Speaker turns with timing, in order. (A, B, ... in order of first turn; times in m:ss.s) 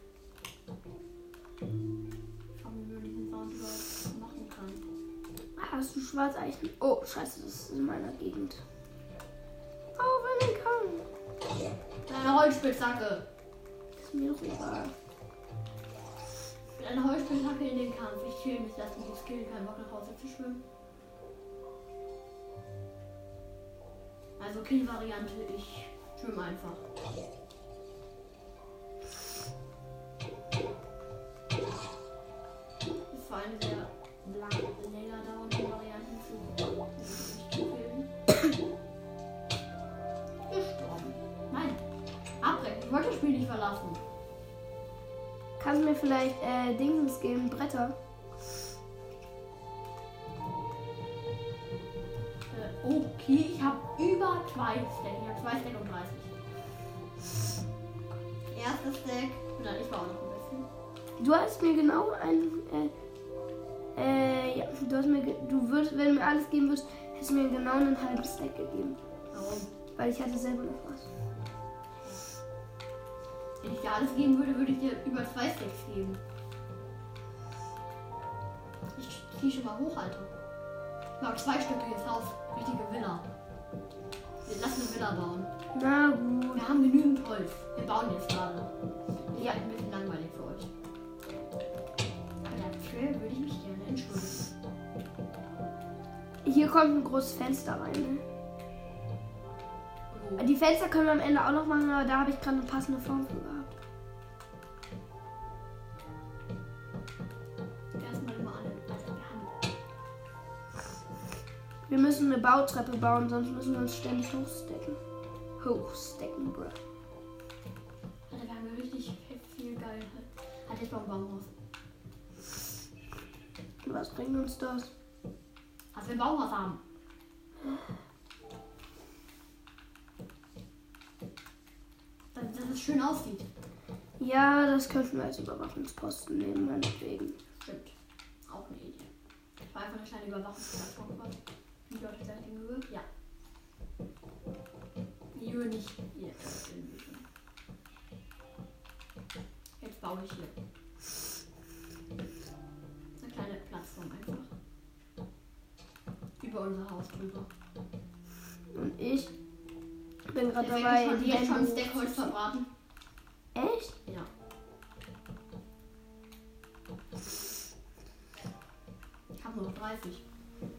0:02.6-0:04.8 A
0:05.6-0:08.6 B
0:10.0-0:11.0 B
0:12.1-0:13.3 A
0:14.0-0:14.9 B
0:16.8-0:20.6 A
0:24.4-0:26.8 A
0:33.1-0:38.1 A
0:40.5-0:41.8 A
0:42.4-0:44.0 A
0:45.6-0:48.0 B
0:52.5-0:56.3 A
0:58.5-1:00.7 A
1:01.2-1:02.9 B
1:04.0-1:09.0 B
1:09.3-1:09.7 A
1:10.0-1:11.1 B
1:13.6-1:16.2 A
1:19.0-1:20.3 A
1:21.2-1:23.3 A
1:24.4-1:25.5 A
1:25.7-1:26.6 B
1:26.5-1:28.7 A
1:29.3-1:30.7 A
1:32.4-1:34.5 A
1:36.4-1:38.2 B
1:40.1-1:40.5 A
1:40.4-1:43.8 B
1:48.0-1:49.5 A
1:51.9-1:55.0 B
1:55.6-1:56.8 B
1:58.3-2:01.5 A
2:03.8-2:04.9 B
2:05.9-2:06.8 A
2:12.3-2:13.5 A
2:14.2-2:17.4 B
2:17.6-2:17.9 A
2:18.5-2:19.1 A
2:19.6-2:23.0 A
2:25.4-2:27.2 A
2:29.8-2:30.5 A
2:33.2-2:34.5 A
2:36.4-2:37.5 A
2:38.7-2:39.3 B
2:40.3-2:42.3 B
2:40.5-2:42.7 A
2:43.6-2:44.0 B
2:49.4-2:50.2 A